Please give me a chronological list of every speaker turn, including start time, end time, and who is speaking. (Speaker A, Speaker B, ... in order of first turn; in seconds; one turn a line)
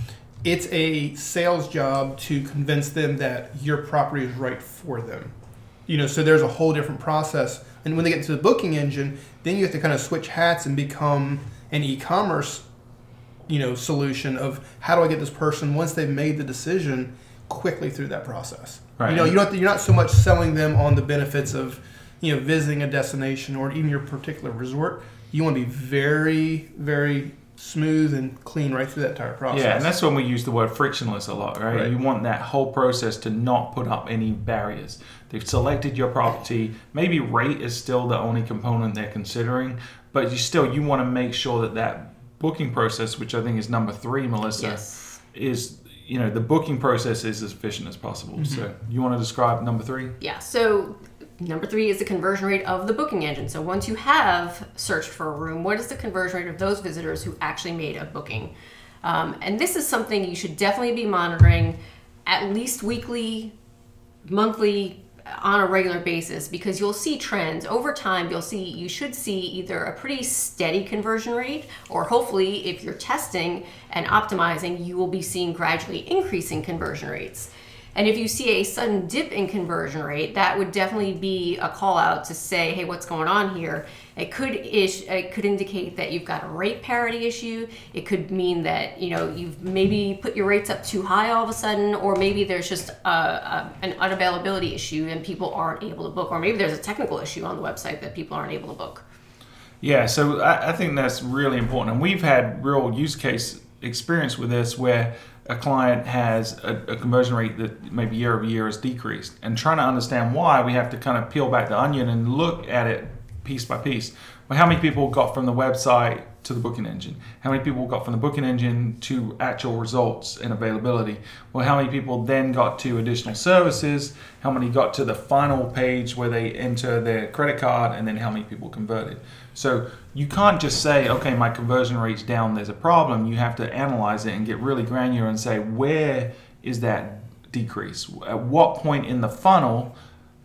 Speaker A: 0.4-5.3
Speaker A: 5.9-12.6
Speaker A: 13.5-29.9
Speaker B: 19.0-19.3
Speaker B: 29.5-44.8
Speaker C: 44.6-45.2
Speaker B: 45.3-50.2
Speaker A: 48.4-48.6
Speaker C: 50.2-58.5
Speaker C: 59.0-63.5
Speaker C: 64.2-99.0
Speaker B: 99.8-139.9